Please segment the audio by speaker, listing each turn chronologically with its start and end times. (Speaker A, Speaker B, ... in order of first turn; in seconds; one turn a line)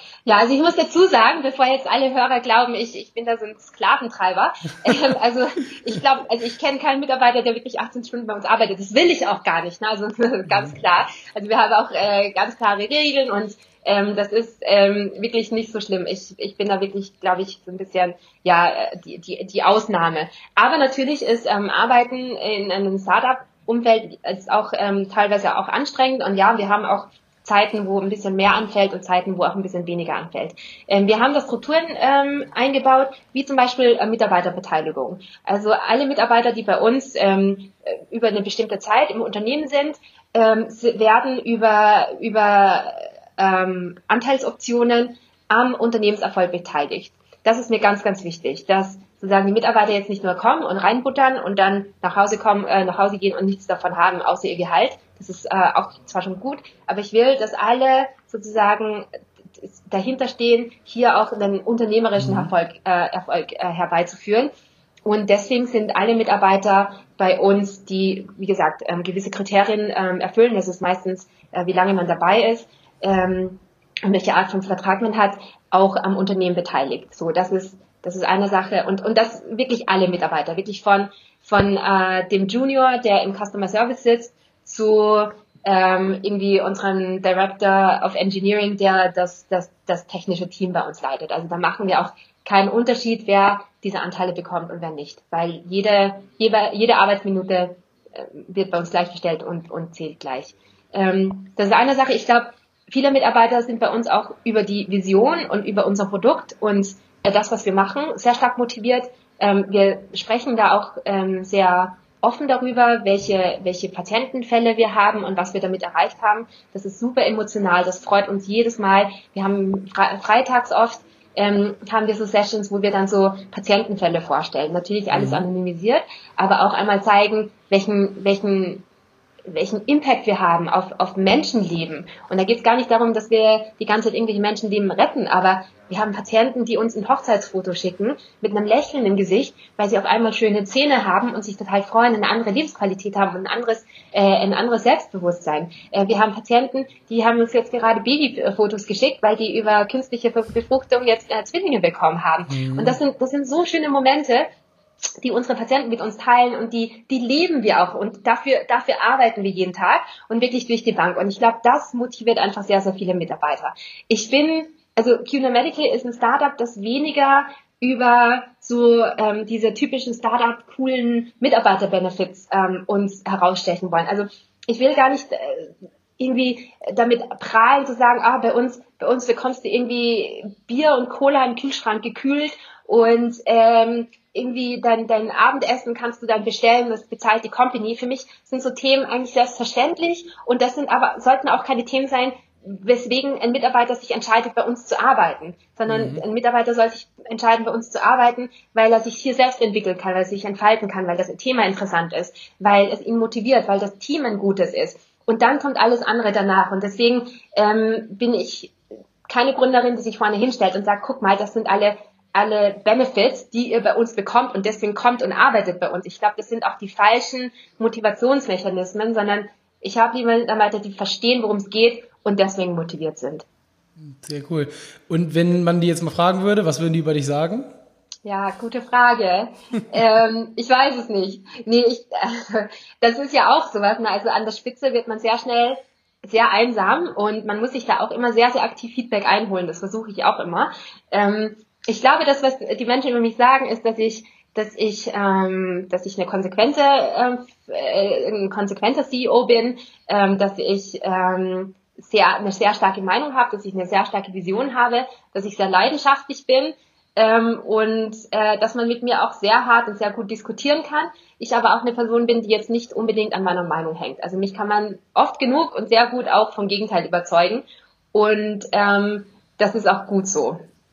Speaker A: 0.2-59.1
Speaker B: 10.5-10.7
Speaker A: 59.6-64.5
Speaker B: 62.2-62.5
Speaker A: 65.0-128.9
Speaker B: 125.1-125.5
Speaker A: 129.5-154.4
Speaker B: 152.5-153.0
Speaker A: 155.2-208.7
Speaker B: 195.9-196.2
Speaker A: 209.3-223.4
Speaker B: 224.2-227.7
Speaker A: 228.2-270.6